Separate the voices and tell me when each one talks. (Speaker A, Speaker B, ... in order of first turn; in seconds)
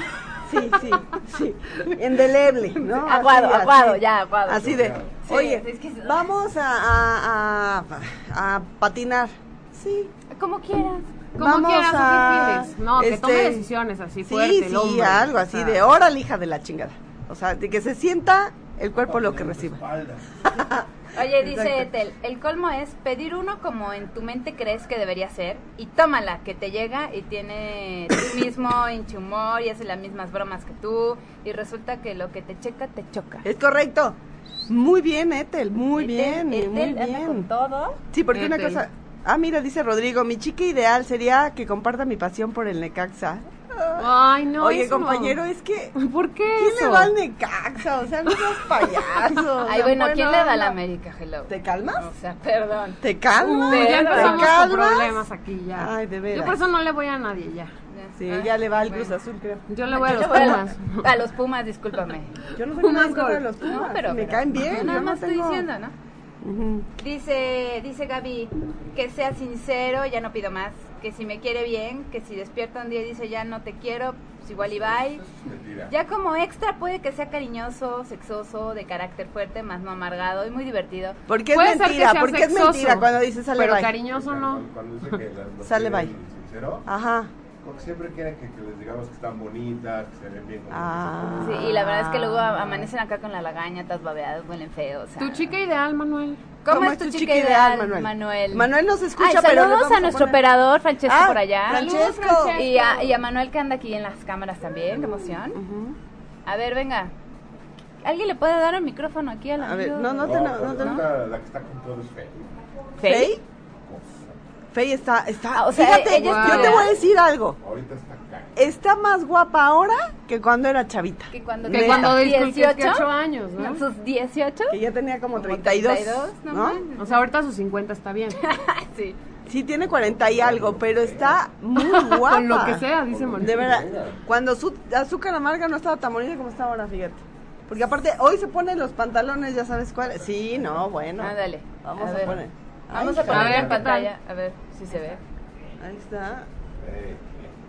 Speaker A: 0.5-10.1, 11.4-13.6, 14.2-19.8, 20.5-21.9, 33.4-37.5, 38.1-45.9, 46.5-50.8, 51.5-52.1, 53.0-55.2, 55.8-56.6, 58.2-60.5, 62.5-65.7, 66.4-66.9, 81.3-84.0, 85.6-86.1, 86.9-87.3, 90.7-92.9, 96.7-100.4, 101.0-102.6, 105.5-106.0, 109.6-111.0, 113.0-113.4, 114.7-117.6, 118.5-122.2, 124.7-126.8, 129.4-132.9, 133.4-143.7, 145.8-146.5
Speaker B: 2.9-4.7, 5.2-6.3, 10.3-11.1, 21.1-33.4, 36.0-38.0, 49.6-53.0, 53.6-54.5, 57.9-59.1, 59.9-62.3, 63.6-65.9, 67.0-75.2, 75.9-81.2, 91.4-95.5, 96.6-102.0, 102.5-105.6, 106.5-107.1, 108.0-111.0, 113.0-113.3, 115.5-116.9, 121.3-124.8, 125.3-127.1, 128.4-129.2, 141.2-145.2
Speaker C: 4.6-5.2, 19.0-20.4, 74.6-75.9, 84.1-86.9, 87.6-91.6, 110.2-112.5, 113.8-114.2, 116.8-118.5, 129.9-131.4, 133.0-134.2, 140.1-140.9, 143.2-143.9, 146.8-147.5
Speaker D: 11.3-15.8, 38.3-38.8, 44.0-45.4, 45.9-47.1, 53.4-57.7, 59.7-61.1, 62.7-63.6, 64.6-64.9, 81.5-84.7, 95.2-96.4, 101.7-103.2, 116.1-116.8, 121.7-123.8, 127.0-128.4, 131.8-133.7, 143.3-144.1